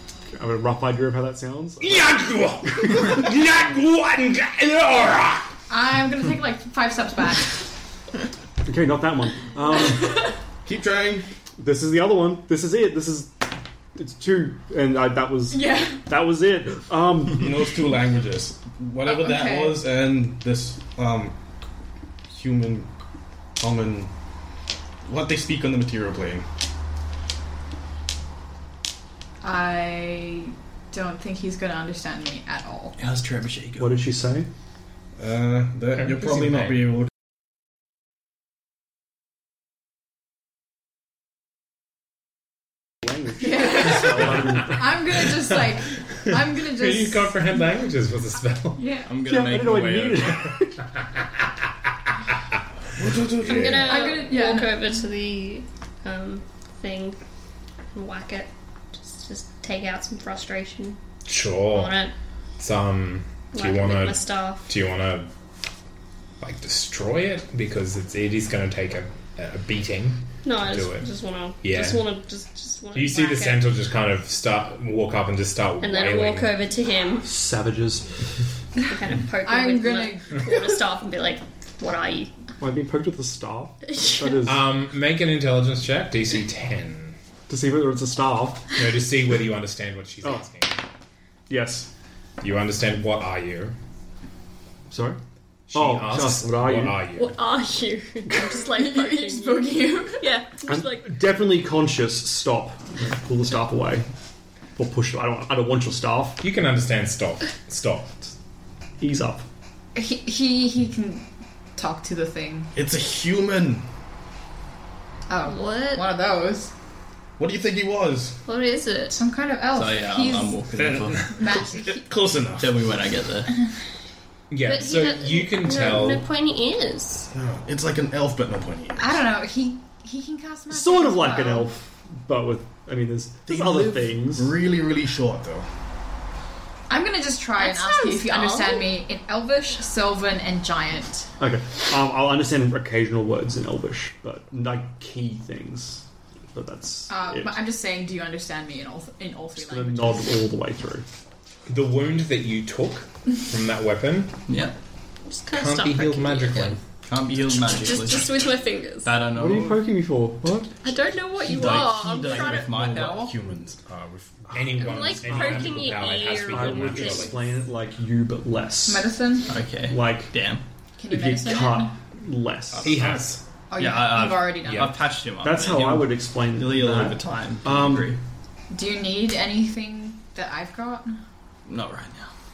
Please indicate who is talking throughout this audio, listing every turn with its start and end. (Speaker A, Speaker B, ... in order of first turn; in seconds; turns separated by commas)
Speaker A: 0.3-2.0, Speaker B: 1.8-5.5, Speaker C: 5.7-7.7, Speaker A: 8.6-10.3, Speaker D: 10.6-11.3, Speaker A: 11.6-17.5, Speaker C: 15.5-16.0, Speaker D: 17.3-21.4, Speaker C: 19.0-19.8, Speaker D: 22.3-22.9, Speaker D: 23.6-24.1, Speaker D: 25.0-26.4, Speaker C: 29.4-33.0, Speaker E: 33.0-34.0, Speaker A: 33.8-34.5, Speaker D: 35.2-37.0, Speaker B: 36.0-36.9, Speaker A: 43.0-44.9, Speaker C: 43.4-47.5, Speaker B: 46.0-49.0, Speaker C: 48.8-49.1, Speaker E: 49.0-50.4, Speaker A: 49.2-50.9, Speaker D: 53.0-54.0, Speaker F: 53.4-57.2, Speaker C: 53.8-54.9, Speaker F: 57.9-61.0, Speaker B: 61.2-62.0, Speaker F: 61.7-62.1, Speaker B: 62.6-65.3, Speaker F: 63.5-64.7, Speaker B: 66.4-71.1, Speaker F: 70.4-73.7, Speaker B: 71.6-72.0, Speaker B: 72.9-76.5, Speaker F: 75.8-77.3, Speaker A: 77.2-78.3, Speaker F: 78.8-82.3, Speaker C: 79.4-80.6, Speaker A: 82.6-84.6, Speaker F: 83.9-84.4, Speaker B: 84.4-87.2, Speaker A: 87.5-88.7, Speaker B: 88.7-90.8, Speaker A: 90.2-90.5, Speaker A: 91.5-91.9, Speaker B: 92.4-93.8, Speaker A: 94.9-95.2, Speaker B: 95.7-97.4, Speaker A: 95.7-97.0, Speaker F: 97.2-101.2, Speaker C: 98.3-100.3, Speaker A: 100.7-104.1, Speaker A: 104.8-106.5, Speaker B: 106.4-108.2, Speaker A: 109.0-109.5, Speaker C: 109.9-112.7, Speaker D: 112.7-113.9, Speaker C: 115.3-116.7, Speaker F: 115.4-116.1, Speaker D: 117.4-118.4, Speaker F: 118.5-119.2, Speaker C: 119.1-120.7, Speaker E: 119.7-121.3, Speaker C: 121.3-122.1, Speaker D: 121.5-122.8, Speaker E: 122.6-123.5, Speaker B: 124.5-126.2, Speaker F: 124.6-127.3, Speaker D: 127.3-129.2, Speaker C: 129.0-131.7, Speaker A: 130.7-134.5, Speaker D: 133.5-135.7, Speaker C: 136.9-141.3, Speaker F: 137.6-138.9, Speaker A: 141.4-147.6, Speaker C: 147.1-150.4, Speaker A: 149.6-151.1, Speaker B: 151.7-154.4, Speaker E: 154.5-154.8, Speaker F: 155.3-156.8, Speaker B: 155.5-156.8, Speaker E: 157.0-158.4, Speaker F: 157.4-159.2, Speaker E: 159.0-159.8, Speaker A: 159.3-160.7, Speaker F: 160.8-163.2, Speaker E: 161.4-163.4, Speaker D: 161.6-164.6, Speaker A: 164.5-169.1, Speaker B: 164.5-167.4, Speaker F: 164.8-167.3, Speaker C: 168.9-169.6, Speaker E: 169.5-170.6, Speaker A: 169.8-170.3, Speaker C: 171.0-171.9, Speaker A: 171.1-173.2, Speaker E: 172.7-173.2, Speaker B: 172.8-173.4, Speaker C: 173.7-174.9, Speaker E: 173.8-178.2, Speaker B: 174.6-174.9, Speaker A: 175.4-178.1, Speaker C: 178.7-181.2, Speaker E: 181.7-182.3